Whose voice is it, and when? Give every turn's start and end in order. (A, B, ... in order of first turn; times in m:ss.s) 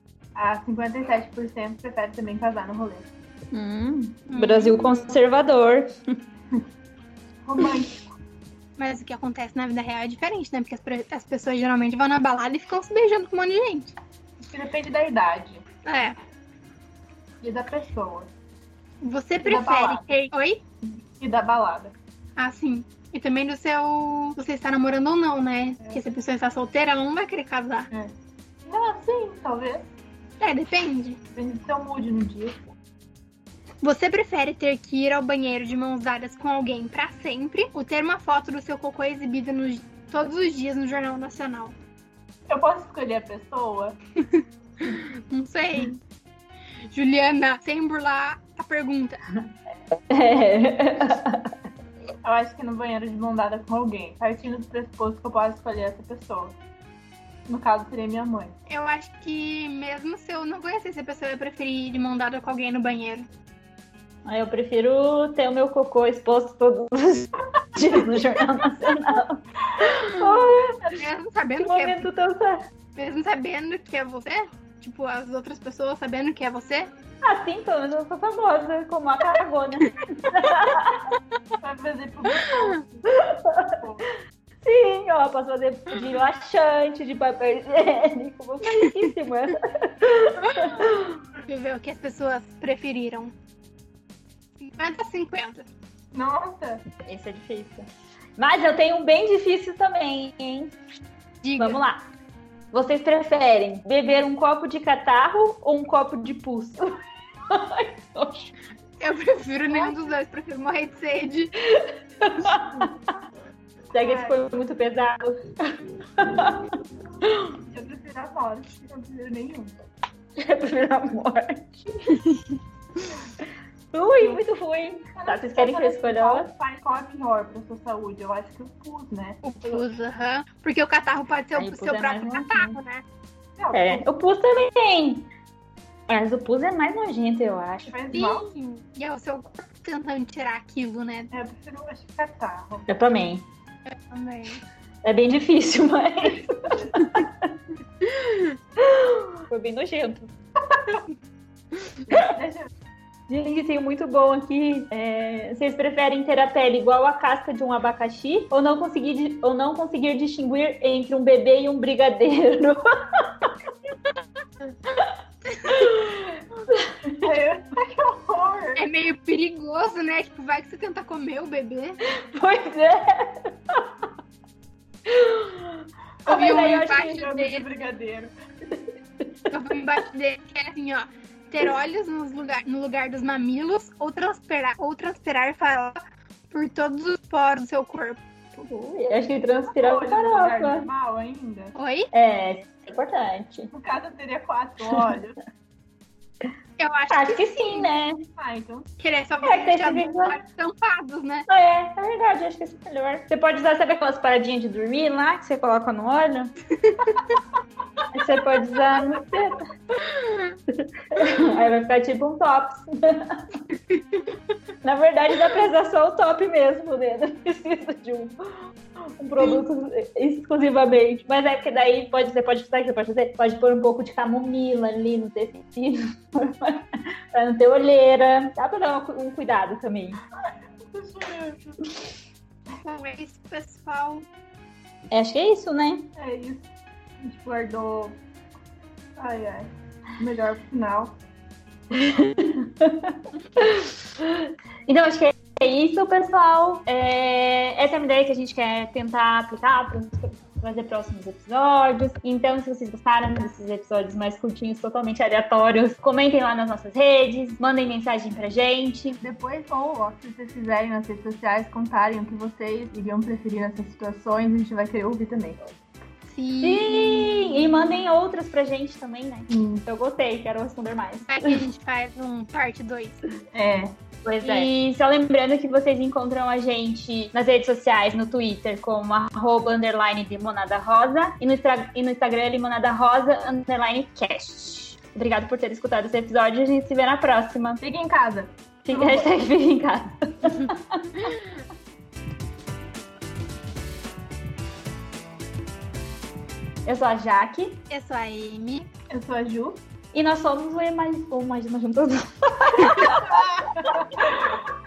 0:00.4-0:03.1 A
0:03.5-0:06.2 B
0:04.3-0:05.0 C
0:07.4-0:08.1 A
0:08.8-0:13.9 C
0:14.4-0:15.6 A
0:15.8-0:16.2 C
0:17.4-0:18.3 A
0:19.0-0:20.6 C
0:19.4-0:20.1 A
0:21.2-0:21.9 A
0:22.4-0:27.9 C
0:28.6-0:29.9 A
0:30.4-0:31.2 C
0:31.3-0:32.6 A
0:33.8-0:41.8 C
0:42.5-0:44.0 A
0:44.2-0:46.0 C
0:46.9-0:49.2 C
0:49.9-0:51.5 B
0:52.2-0:56.6 A
0:57.5-0:58.6 A
0:58.7-1:03.3 C
1:04.3-1:10.8 B
1:07.8-1:08.4 A
1:10.8-1:12.1 C
1:11.6-1:12.6 B
1:13.0-1:16.9 C
1:17.2-1:21.1 B
1:21.6-1:23.1 A
1:22.4-1:22.8 C
1:23.1-1:23.8 B
1:23.7-1:24.1 A
1:24.6-1:31.2 B
1:30.5-1:33.3 C
1:34.6-1:35.7 C
1:36.1-1:36.8 A
1:37.0-1:40.7 B
1:41.4-1:41.8 C
1:41.6-1:42.0 B
1:42.7-1:48.5 B
1:49.0-1:51.5 C
1:51.7-1:52.9 B
1:53.9-1:56.7 B
1:54.0-1:54.4 A
1:57.2-1:57.5 B
1:57.7-1:59.7 A
2:00.4-2:02.2 B
2:03.9-2:06.5 B
2:05.2-2:09.8 A
2:09.4-2:13.0 C
2:11.6-2:12.8 B
2:13.6-2:14.1 A
2:13.7-2:15.3 B
2:16.1-2:18.0 B
2:17.9-2:18.5 A
2:18.1-2:21.3 C
2:21.3-2:22.9 A
2:22.9-2:23.5 B
2:23.9-2:24.6 C
2:25.0-2:27.3 B
2:28.0-2:28.5 C
2:28.8-2:30.3 B
2:32.1-2:32.7 A
2:33.3-2:43.3 B
2:45.4-2:45.9 C
2:45.7-2:47.2 B
2:47.2-2:48.9 A
2:48.8-2:52.0 C
2:52.0-2:53.9 B
2:55.1-2:57.3 B
2:56.3-2:57.7 C
2:56.3-2:58.3 A
2:59.5-3:08.6 C
3:08.7-3:10.9 B
3:09.7-3:11.7 A
3:11.8-3:12.1 C
3:12.1-3:13.7 B
3:13.7-3:15.4 A
3:16.8-3:17.9 C
3:17.1-3:18.2 B
3:18.4-3:18.9 A
3:19.0-3:21.5 C
3:19.4-3:20.4 B
3:21.5-3:26.5 B
3:26.8-3:27.3 C
3:28.1-3:29.7 B
3:30.0-3:30.6 C
3:30.7-3:33.5 B
3:33.8-3:34.3 C
3:34.8-3:38.6 B
3:39.2-3:50.2 B
3:50.8-3:51.9 A
3:52.8-3:54.2 C
3:55.1-3:56.1 B
3:56.2-3:56.7 A
3:57.2-3:58.2 A
3:59.2-4:01.2 A
4:01.9-4:19.2 B
4:19.2-4:25.6 A
4:26.3-4:27.9 C
4:26.6-4:31.6 B
4:29.5-4:29.8 A
4:31.3-4:33.2 C
4:33.5-4:34.0 A
4:34.2-4:47.8 B
4:34.4-4:34.7 C
4:47.8-4:49.3 A
4:48.9-4:51.3 B
4:56.9-4:57.8 B
4:57.9-4:58.9 C
4:59.1-4:59.8 A
5:00.1-5:04.7 B
5:03.8-5:04.3 A